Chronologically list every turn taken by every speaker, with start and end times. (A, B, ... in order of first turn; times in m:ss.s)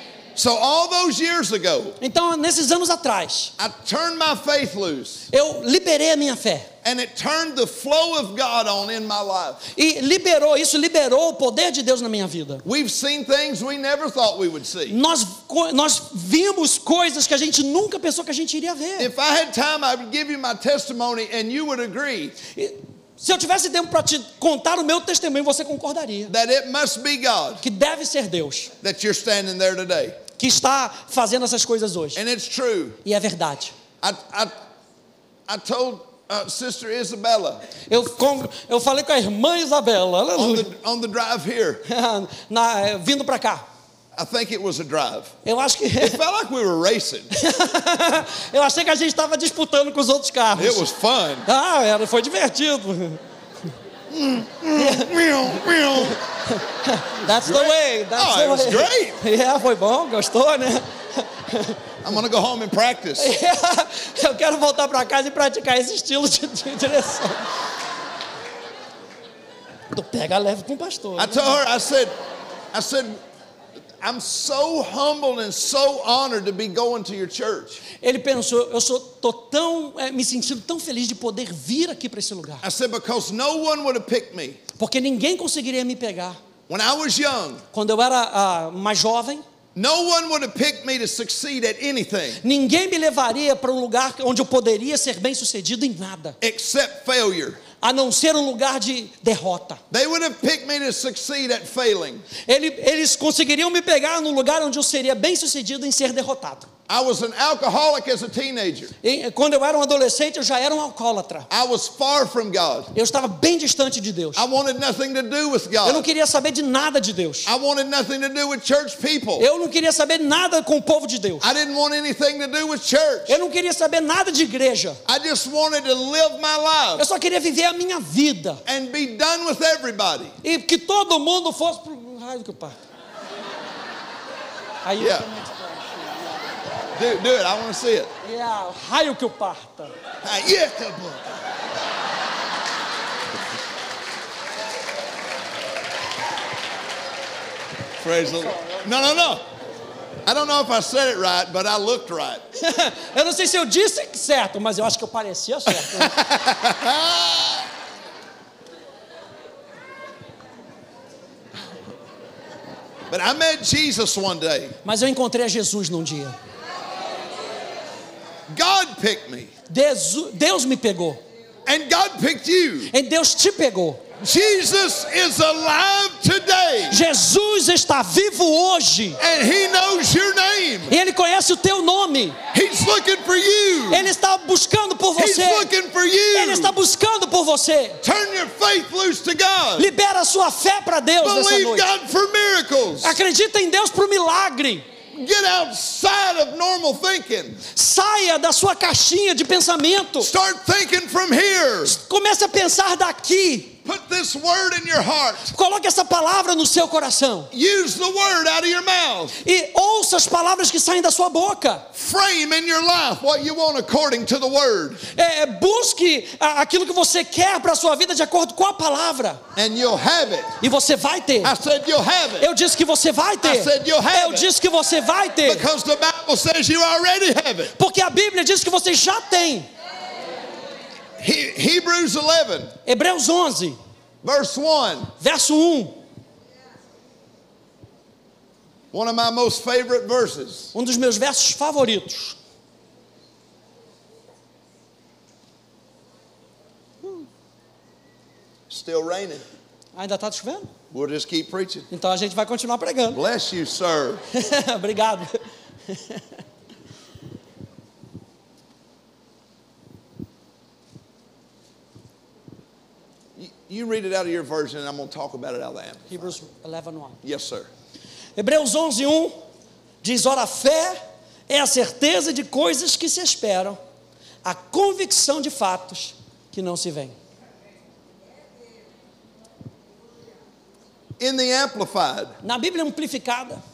0:00.4-0:02.0 A
0:02.0-0:03.5 B
0:03.6-0:05.3 A
0:05.3-0:06.7 B
0:06.8-0:09.6 A
0:09.7-0:12.6 B
0:12.6-0:15.0 A
0:14.9-0:19.1 B
0:19.0-0:22.4 A
0:22.6-0:26.3 B
0:26.3-0:27.6 A
0:27.6-0:28.7 B
0:28.8-0:30.2 A
0:30.4-0:32.2 B
0:32.2-0:33.0 A
0:33.0-0:33.7 B
0:34.0-0:34.5 A
0:35.5-0:37.6 A
0:37.9-0:40.7 B
0:40.4-0:41.8 A
0:41.9-0:43.6 B
0:44.2-0:45.3 A
0:45.4-0:46.2 B
0:46.0-0:47.3 A
0:47.3-0:50.8 B
0:50.6-0:51.5 A
0:51.5-0:53.2 B
0:54.1-0:56.2 A
0:54.8-0:55.1 B
0:56.5-1:01.8 B
0:57.3-0:59.2 A
1:02.0-1:03.3 A
1:03.2-1:07.5 B
1:09.9-1:11.6 B
1:11.2-1:12.1 A
1:12.7-1:13.2 A
1:14.0-1:17.8 A
1:18.0-1:22.6 B
1:22.6-1:24.6 A
1:24.8-1:26.4 B
1:26.7-1:27.6 A
1:27.7-1:29.4 B
1:29.8-1:32.4 A
1:32.4-1:36.4 B
1:36.4-1:37.6 A
1:37.8-1:39.8 B
1:39.9-1:42.3 A
1:42.5-1:46.7 B
1:46.9-1:48.9 A
1:49.0-1:51.5 B
1:51.5-1:52.9 A
1:52.9-1:54.4 B
1:54.4-1:56.1 A
1:55.8-1:57.5 B
1:57.4-1:59.5 A
1:59.4-2:01.5 B
2:01.4-2:03.4 A
2:03.3-2:05.0 B
2:05.1-2:07.0 A
2:07.0-2:08.6 B
2:08.7-2:10.4 A
2:10.4-2:12.8 B
2:14.8-2:16.5 B
2:15.0-2:15.3 A
2:17.0-2:18.1 A
2:18.2-2:19.9 B
2:20.2-2:21.4 A
2:28.0-2:29.4 A
2:28.5-2:28.8 B
2:30.2-2:32.4 A
2:32.6-2:36.1 B
2:35.7-2:37.6 A
2:43.1-2:44.8 A
2:44.8-2:46.4 B
2:48.5-2:49.5 A
2:49.7-2:51.2 B
2:51.7-2:52.9 A
2:52.9-2:54.0 B
2:54.2-2:57.0 A
2:56.9-2:59.2 B
2:59.2-3:01.0 A
3:00.9-3:02.4 B
3:02.5-3:04.1 A
3:03.9-3:05.7 B
3:05.2-3:06.7 A
3:06.3-3:08.0 B
3:08.0-3:09.9 A
3:09.8-3:11.9 B
3:11.2-3:13.2 A
3:13.0-3:14.8 B
3:15.1-3:17.6 A
3:17.7-3:20.3 B
3:20.2-3:22.0 A
3:21.9-3:23.8 B
3:23.8-3:25.5 A
3:25.5-3:27.5 B
3:27.5-3:29.3 A
3:29.4-3:31.9 B
3:31.9-3:35.0 A
3:35.1-3:39.4 B
3:39.6-3:40.6 A
3:40.6-3:41.5 B
3:41.4-3:42.5 A
3:42.4-3:45.7 B
3:43.4-3:44.5 A
3:45.4-3:47.7 A
3:47.8-3:49.7 B
3:51.2-3:52.7 A
3:52.9-3:53.8 B
3:54.2-3:55.1 A
3:55.2-3:56.0 B
3:58.9-4:00.7 A
4:00.7-4:02.4 B
4:08.7-4:09.4 A
4:10.0-4:10.7 B
4:10.9-4:11.9 A
4:11.9-4:13.2 B
4:13.1-4:14.2 A
4:14.3-4:16.3 B
4:23.4-4:26.2 A
4:26.1-4:27.2 B
4:27.2-4:27.7 A
4:28.4-4:29.4 B
4:30.0-4:33.8 B
4:34.4-4:37.2 B
4:41.2-4:42.3 A
4:42.4-4:43.6 B